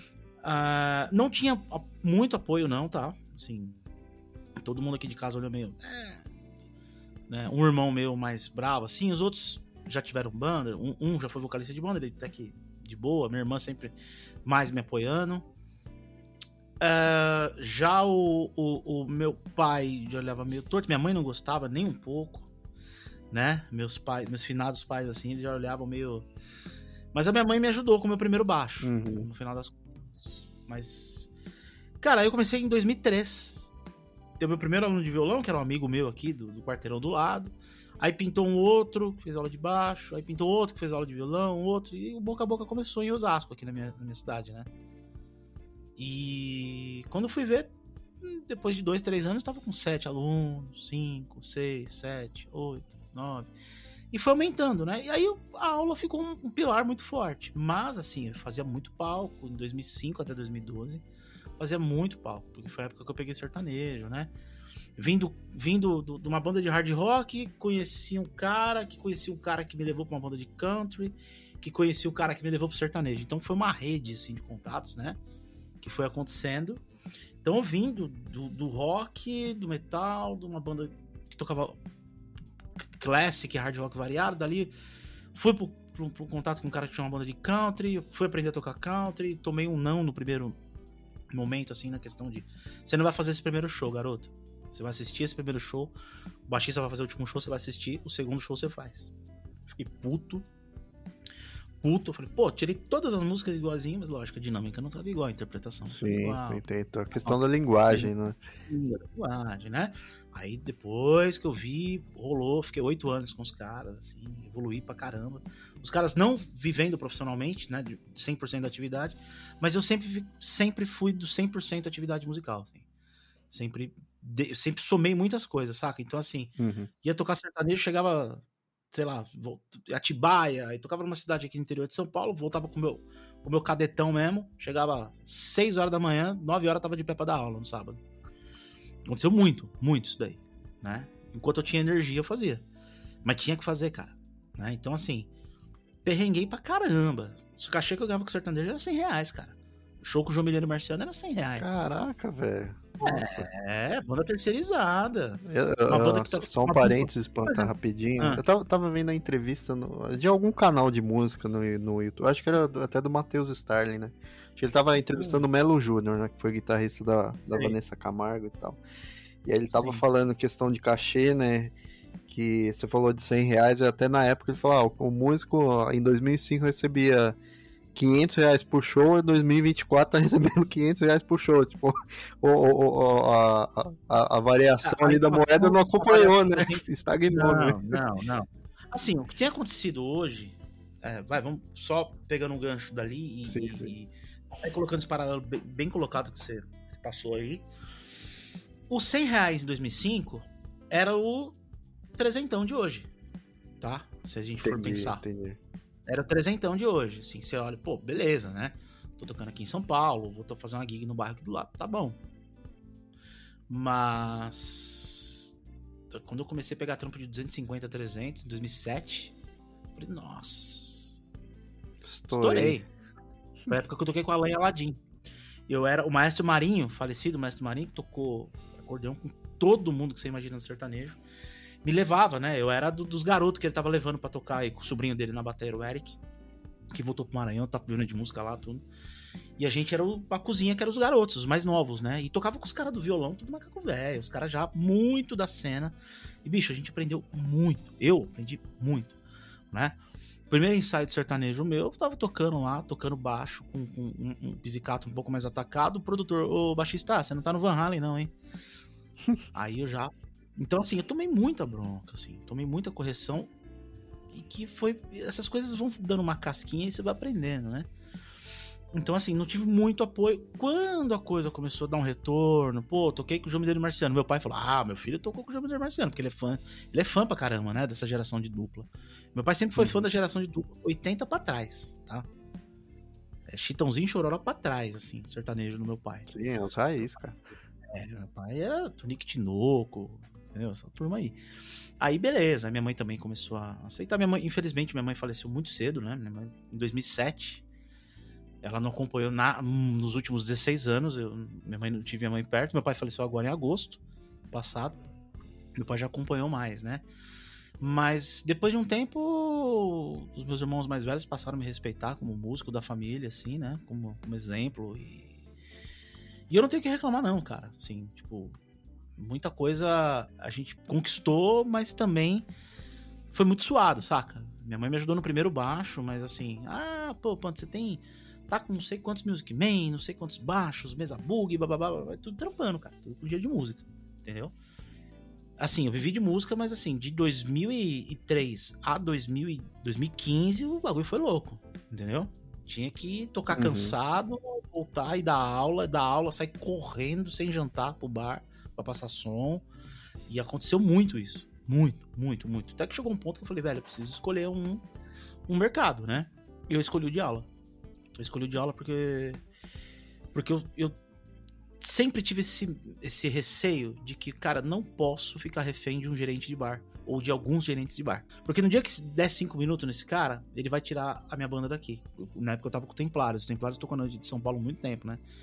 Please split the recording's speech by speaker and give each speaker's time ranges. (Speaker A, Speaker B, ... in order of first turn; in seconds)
Speaker A: 0.4-3.8, 4.6-6.2, 7.3-13.9, 14.4-15.4, 16.8-22.5, 23.3-26.2, 27.1-31.3, 32.0-33.7, 34.4-44.7, 46.0-53.5, 54.1-61.0, 61.6-64.3, 65.0-75.2, 75.8-76.8, 77.4-81.8, 83.0-84.7, 85.3-90.5, 91.3-95.9, 96.5-99.1, 99.7-100.4, 101.8-106.6, 107.1-108.1, 108.7-122.8, 123.5-138.0, 139.1-142.6, 143.2-145.3, 146.0-151.8, 153.0-158.4, 165.1-165.4, 167.5-167.7, 169.7-170.0, 184.8-197.6, 198.9-201.6, 202.2-203.1, 203.8-205.2, 206.1-212.2, 213.7-215.5, 216.1-219.3, 219.9-221.2, 222.3-222.9, 223.7-225.0, 225.7-231.2, 231.8-236.2, 236.9-238.8, 239.6-249.2, 249.7-250.0, 250.5-258.3, 259.5-263.5, 264.3-267.9, 268.9-282.2, 283.5-286.3, 287.9-291.4, 292.0-297.6, 298.6-304.0, 304.5-304.9, 305.8-307.0, 307.8-315.4, 316.5-318.6, 319.2-322.5, 323.3-334.5, 335.6-349.6, 350.3-354.8, 355.5-357.5, 358.2-359.4, 360.3-361.0, 361.8-375.2
Speaker B: 28.8-29.3, 105.9-108.4, 126.6-126.9, 151.6-153.5, 155.4-168.8, 169.4-171.7, 172.3-177.3, 177.9-188.0, 193.4-193.9, 204.6-205.6, 222.0-222.8, 279.8-280.0, 286.3-287.4, 343.5-343.9